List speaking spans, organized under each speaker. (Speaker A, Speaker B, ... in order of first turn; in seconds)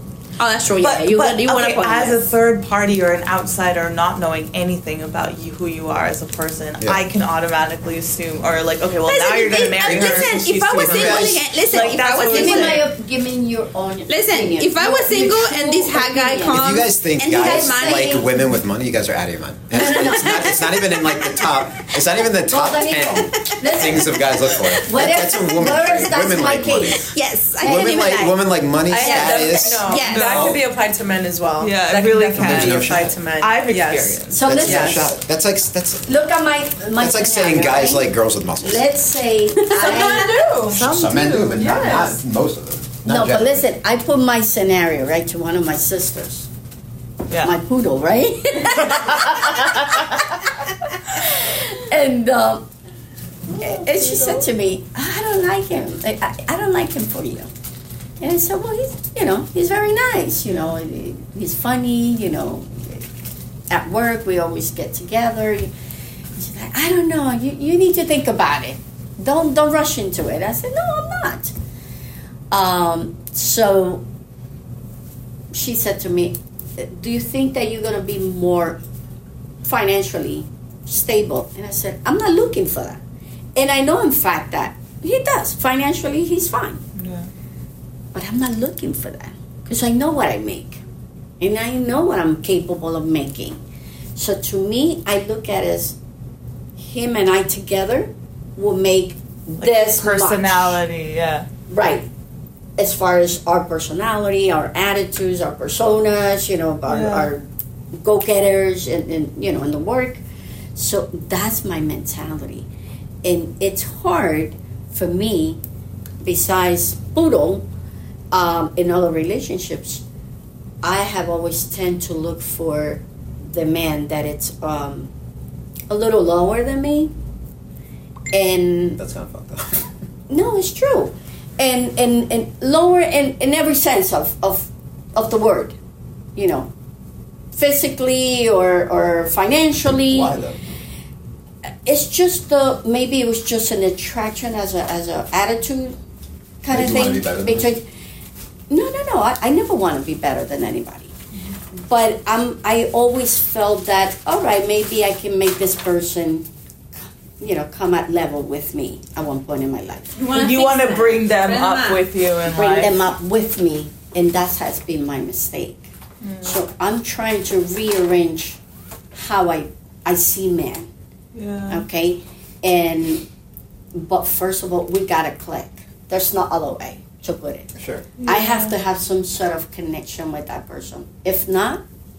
Speaker A: 0.4-2.2, 9.1-12.9, 14.1-18.3, 19.7-21.6, 23.4-24.6, 27.1-28.4, 29.0-30.5, 39.8-40.1, 160.2-162.1
Speaker B: 0.8-12.9, 30.1-30.6, 31.6-32.9, 33.4-34.5, 40.7-42.1, 53.6-54.5, 87.0-87.3, 99.6-101.5, 106.9-107.3, 160.3-163.0, 166.2-166.6, 171.3-171.8, 178.2-178.8
Speaker C: 9.9-10.3, 10.8-11.2, 16.5-27.1, 27.6-30.6, 32.3-33.2, 34.4-36.2, 37.0-38.9, 40.7-43.7, 129.0-129.9, 139.9-140.6, 146.7-147.7, 177.8-178.1
Speaker D: 12.3-16.7, 17.3-18.4, 19.7-20.6, 22.5-27.1, 27.6-28.2, 34.3-35.1, 36.1-40.5, 43.1-46.5, 47.4-52.7, 53.5-57.5, 58.2-63.0, 63.7-65.7, 66.4-71.5, 72.5-74.0, 75.5-78.8, 79.6-83.0, 83.5-86.8, 88.1-90.8, 91.4-93.6, 94.2-96.0, 96.8-100.8, 101.7-102.1, 102.8-107.5, 108.0-110.2, 110.8-112.7, 113.2-115.6, 116.2-117.7, 118.3-120.0, 120.8-125.1, 125.9-127.1, 128.3-129.0, 130.3-135.8, 136.4-136.7, 137.5-140.3, 141.8-146.0, 146.6-147.9, 148.7-151.1, 151.7-156.5, 157.4-160.2, 162.5-165.9, 166.4-168.6, 169.1-170.9, 171.7-173.3, 173.9-177.7, 178.2-181.8
Speaker E: 28.9-35.1, 39.6-40.9, 41.5-42.2